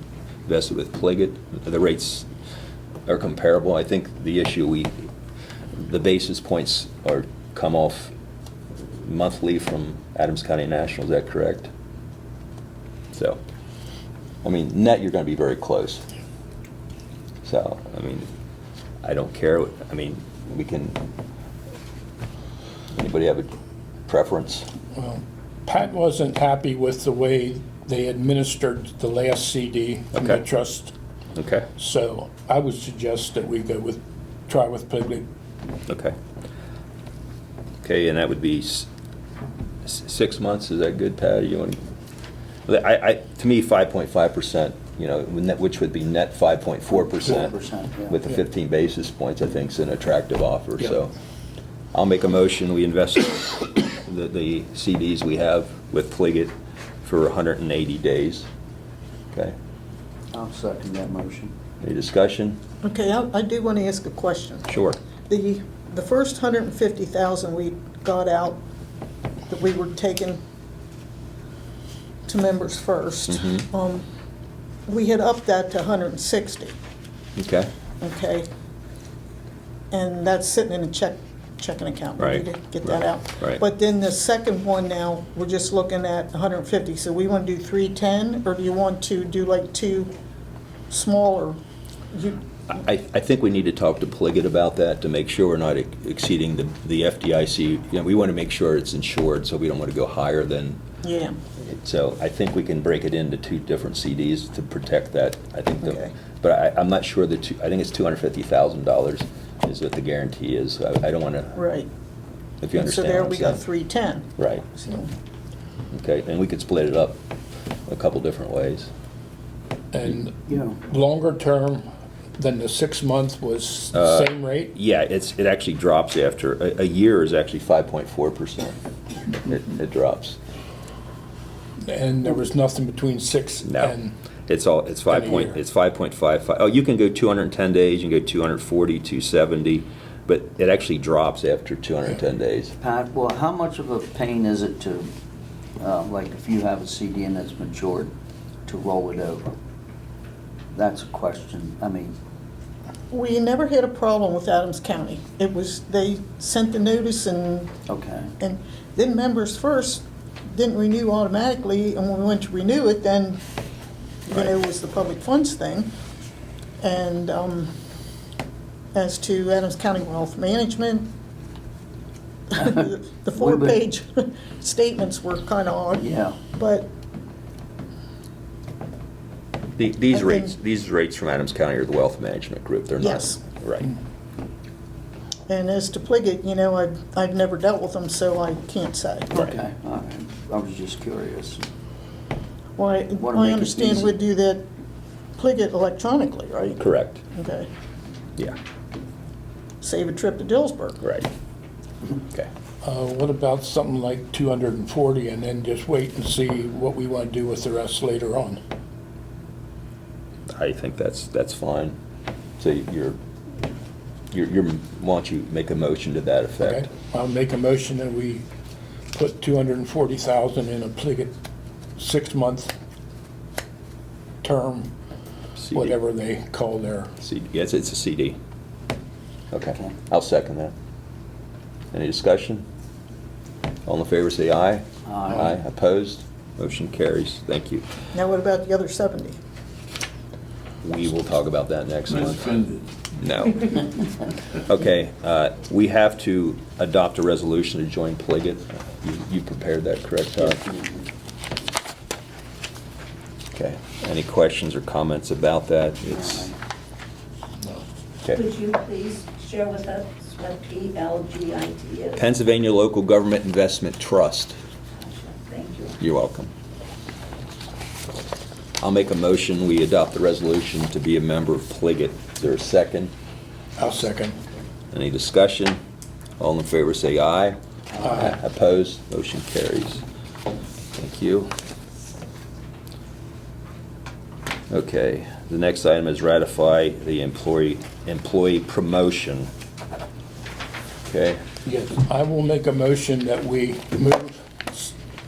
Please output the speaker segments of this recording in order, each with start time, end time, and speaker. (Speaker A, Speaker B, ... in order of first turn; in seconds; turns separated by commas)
Speaker A: 0.5-2.3, Speaker A: 3.1-5.1, Speaker A: 5.7-8.1, Speaker A: 8.9-11.7, Speaker A: 13.1-13.4, Speaker A: 14.4-16.0, Speaker A: 17.4-18.3, Speaker A: 19.0-21.0, Speaker A: 22.9-23.5, Speaker A: 24.1-24.7, Speaker B: 24.9-30.9, Speaker A: 30.1-30.4, Speaker A: 31.4-31.7, Speaker B: 31.8-35.3, Speaker A: 35.9-36.2, Speaker A: 37.8-38.9, Speaker A: 39.8-41.8, Speaker A: 42.7-47.5, Speaker C: 47.1-48.2, Speaker A: 48.1-51.1, Speaker A: 51.9-58.5, Speaker C: 60.3-61.5, Speaker A: 61.8-62.6, Speaker D: 62.8-64.7, Speaker A: 64.7-65.0, Speaker D: 65.3-68.6, Speaker D: 69.5-70.4, Speaker D: 72.3-74.0, Speaker A: 73.3-73.7, Speaker D: 74.9-76.8, Speaker A: 77.4-77.7, Speaker D: 78.0-78.5, Speaker D: 79.9-90.1, Speaker A: 82.2-83.6, Speaker D: 90.9-91.6, Speaker D: 92.1-92.4, Speaker A: 92.7-100.8, Speaker D: 101.0-101.4, Speaker A: 101.6-111.6, Speaker D: 105.8-106.1, Speaker D: 111.6-111.9, Speaker A: 112.6-113.6, Speaker D: 112.8-115.1, Speaker A: 114.4-114.7, Speaker A: 115.9-117.2, Speaker A: 117.9-118.9, Speaker B: 119.9-121.9, Speaker C: 120.5-120.8, Speaker B: 122.4-124.7, Speaker A: 123.9-128.8, Speaker A: 129.3-130.4, Speaker B: 131.9-134.2, Speaker A: 133.6-134.0, Speaker A: 134.5-142.7, Speaker B: 135.1-135.5, Speaker C: 142.8-145.1, Speaker C: 145.8-148.1, Speaker C: 148.7-149.5, Speaker C: 150.7-152.2, Speaker D: 153.1-157.7, Speaker C: 157.9-158.4, Speaker D: 158.4-163.4, Speaker D: 164.3-165.9, Speaker D: 166.8-167.7, Speaker D: 168.9-171.1, Speaker D: 172.5-176.9, Speaker C: 172.6-173.9, Speaker C: 176.0-176.4, Speaker A: 179.8-183.9, Speaker D: 180.1-180.5, Speaker D: 183.0-183.4, Speaker D: 185.5-189.3, Speaker C: 189.3-191.7, Speaker D: 192.8-194.7, Speaker C: 193.2-194.1, Speaker D: 195.4-197.7, Speaker A: 196.8-197.2, Speaker D: 199.8-201.0, Speaker A: 201.0-201.3, Speaker B: 202.8-208.6, Speaker A: 210.5-212.0, Speaker A: 212.6-213.2, Speaker A: 214.3-216.9, Speaker B: 216.6-218.5, Speaker B: 219.1-221.3, Speaker B: 222.0-222.7, Speaker B: 224.4-224.9, Speaker A: 225.6-226.0, Speaker B: 225.7-227.1, Speaker A: 227.2-228.4, Speaker A: 229.5-230.7, Speaker A: 231.9-232.7, Speaker A: 233.9-237.8, Speaker C: 235.1-235.5, Speaker D: 238.1-239.4, Speaker A: 240.8-243.9, Speaker A: 244.5-250.6, Speaker C: 250.5-251.0, Speaker A: 253.5-256.5, Speaker C: 256.1-256.5, Speaker E: 258.3-262.2, Speaker A: 262.1-264.6, Speaker E: 265.0-266.0, Speaker A: 266.0-266.5, Speaker A: 268.8-273.1, Speaker B: 273.8-274.4, Speaker A: 274.9-275.8, Speaker A: 276.4-280.0, Speaker A: 280.9-281.5, Speaker A: 284.7-289.5, Speaker A: 291.1-291.4, Speaker B: 291.6-294.9